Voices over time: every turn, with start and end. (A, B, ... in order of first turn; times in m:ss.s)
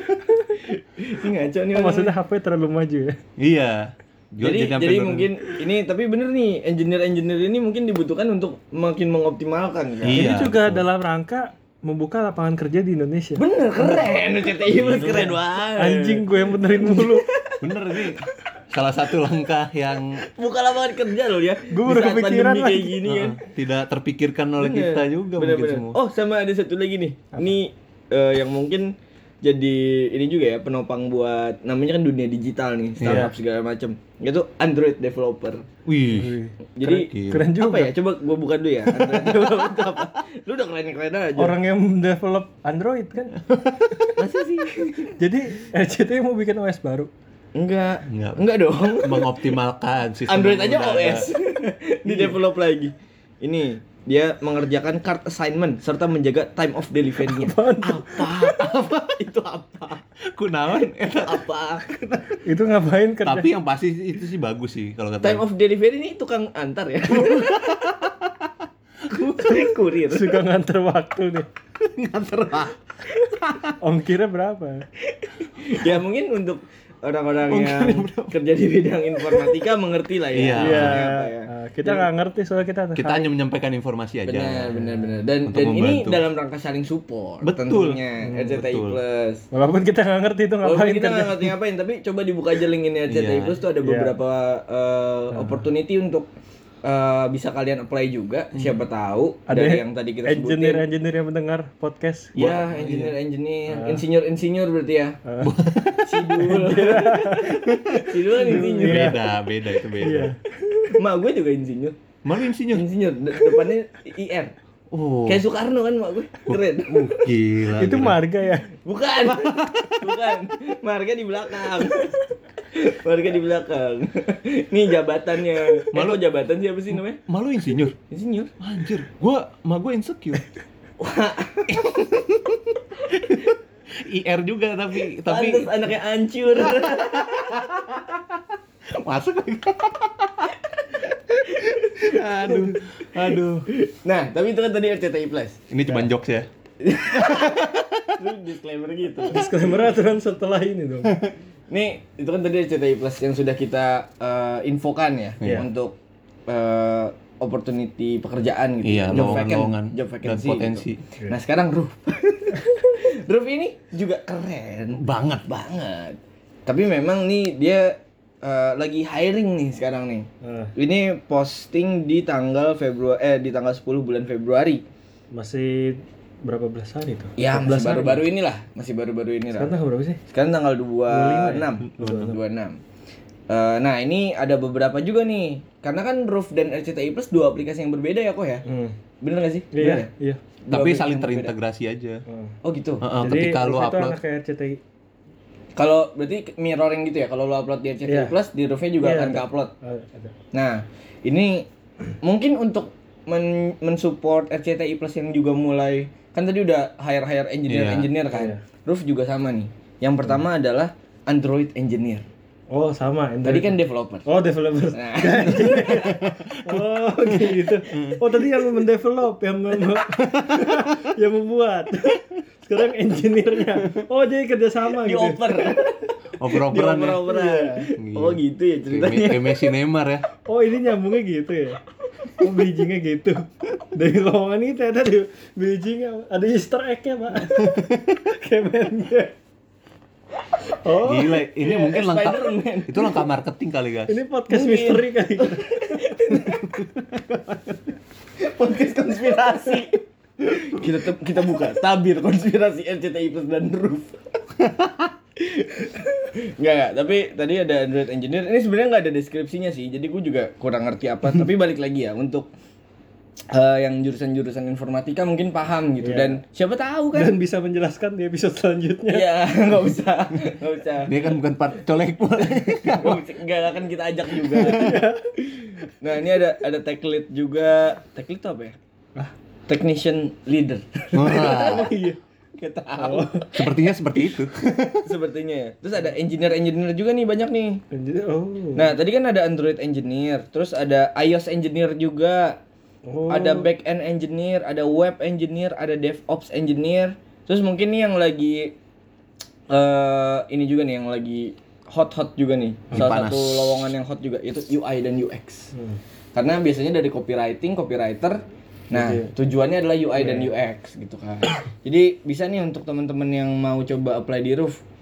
0:00.2-0:00.6 A
0:00.7-0:02.1 B
0:01.7-0:03.2 A
0:03.4-0:05.3 C
0:04.4-0:10.3 B
0:10.0-0:10.8 C
0:10.1-0:14.1 A
0:13.4-0:18.0 B
0:14.7-0:15.3 C
0:15.1-0:17.3 A
0:17.6-0:20.2 C
0:20.3-0:23.4 B
0:21.7-0:23.0 A
0:23.0-0:26.0 C
0:24.6-0:28.9 B
0:29.4-0:35.6 B
0:33.0-0:33.3 C
0:33.0-0:33.3 A
0:35.8-0:36.4 C
0:36.1-0:37.9 A
0:36.8-0:41.6 B
0:37.0-0:37.5 C
0:39.0-0:39.5 C
0:41.4-0:43.4 A
0:43.5-0:44.9 C
0:44.2-0:45.1 B
0:45.2-0:47.1 A
0:47.6-0:49.5 B
0:48.0-0:51.3 C
0:50.3-1:00.0 B
0:52.0-0:52.4 A
0:57.2-0:58.2 A
0:58.3-0:59.2 C
1:00.2-1:01.4 C
1:00.7-1:02.2 B
1:02.4-1:03.5 A
1:03.2-1:05.4 C
1:05.2-1:07.9 B
1:07.1-1:08.5 C
1:09.1-1:10.4 B
1:09.1-1:09.5 C
1:10.1-1:11.5 A
1:11.8-1:13.7 C
1:13.8-1:14.8 A
1:15.1-1:22.0 B
1:17.5-1:18.4 C
1:20.3-1:21.1 C
1:20.6-1:23.2 A
1:22.9-1:24.9 C
1:24.2-1:29.4 B
1:25.4-1:26.2 C
1:27.4-1:29.0 C
1:28.2-1:28.5 A
1:29.5-1:31.6 A
1:30.6-1:36.3 B
1:33.1-1:33.6 C
1:33.8-1:34.1 A
1:35.3-1:35.6 A
1:36.8-1:40.8 B
1:38.5-1:38.8 C
1:39.5-1:42.4 A
1:42.3-1:45.2 B
1:42.4-1:43.1 C
1:43.7-1:44.0 A
1:45.2-1:45.5 A
1:45.4-1:46.4 C
1:46.0-1:49.2 B
1:46.4-1:47.6 A
1:47.6-1:50.3 C
1:48.3-1:49.4 A
1:50.0-1:50.4 A
1:50.8-1:52.0 B
1:52.2-1:52.8 C
1:52.7-1:54.5 B
1:54.9-1:55.4 C
1:55.2-1:57.2 B
1:56.4-1:58.2 C
1:57.7-1:58.7 A
1:58.8-2:07.2 B
1:59.2-2:00.2 C
2:05.9-2:06.2 C
2:06.9-2:08.0 C
2:08.1-2:08.5 B
2:08.6-2:10.4 C
2:11.0-2:13.4 B
2:13.9-2:15.7 C
2:15.2-2:17.7 B
2:16.5-2:18.2 C
2:18.9-2:20.5 C
2:20.9-2:22.8 B
2:21.6-2:23.6 C
2:23.1-2:23.6 A
2:23.7-2:25.6 B
2:25.7-2:26.5 C
2:26.8-2:29.5 B
2:27.1-2:28.0 C
2:29.3-2:31.1 A
2:31.7-2:36.0 B
2:35.4-2:35.7 C
2:36.5-2:54.8 B
2:38.8-2:41.0 C
2:45.0-2:45.5 C
2:50.4-2:50.7 A
2:55.3-2:58.2 A
2:57.4-2:59.7 B
2:59.6-3:00.2 A
3:00.3-3:02.8 B
3:01.1-3:02.3 A
3:02.0-3:02.2 C
3:03.5-3:08.6 B
3:08.6-3:09.0 A
3:09.2-3:10.1 B
3:09.7-3:10.4 A
3:10.6-3:11.5 B
3:10.7-3:12.2 C
3:12.3-3:12.6 A
3:12.6-3:13.1 B
3:13.0-3:14.2 C
3:13.2-3:14.8 A
3:15.8-3:19.7 B
3:18.1-3:18.3 A
3:19.0-3:20.3 A
3:20.5-3:21.7 B
3:22.2-3:32.2 B
3:27.7-3:28.1 C
3:28.3-3:28.6 A
3:32.7-3:45.8 A
3:33.4-3:34.3 B
3:34.9-3:36.0 B
3:35.5-3:38.2 C
3:40.1-3:41.0 C
3:44.9-3:49.7 B
3:46.4-3:47.3 C
3:47.3-3:47.9 A
3:48.0-3:50.3 C
3:50.4-3:51.8 A
3:52.4-3:59.3 A
3:57.6-3:58.2 C
4:00.8-4:01.4 A
4:01.0-4:04.1 C
4:01.6-4:03.2 B
4:04.1-4:06.6 A
4:04.5-4:06.8 B
4:08.4-4:14.2 B
4:14.6-4:15.1 C
4:15.4-4:22.5 B
4:23.5-4:27.3 B
4:26.0-4:26.4 A
4:27.1-4:29.4 A
4:29.1-4:31.2 B
4:31.0-4:33.2 C
4:32.4-4:38.8 B
4:34.5-4:35.6 A
4:39.7-4:41.9 B
4:41.1-4:41.9 C
4:41.2-4:42.2 A
4:42.6-4:43.7 B
4:43.0-4:43.5 A
4:43.5-4:45.1 C
4:45.0-4:47.8 B
4:47.9-4:48.9 A
4:48.7-4:52.6 B
4:53.0-4:53.7 A
4:53.3-4:58.7 B
4:59.7-5:05.7 B
5:02.9-5:03.9 C
5:05.7-5:06.0 A
5:06.3-5:14.8 B
5:08.9-5:09.3 A
5:10.2-5:10.5 A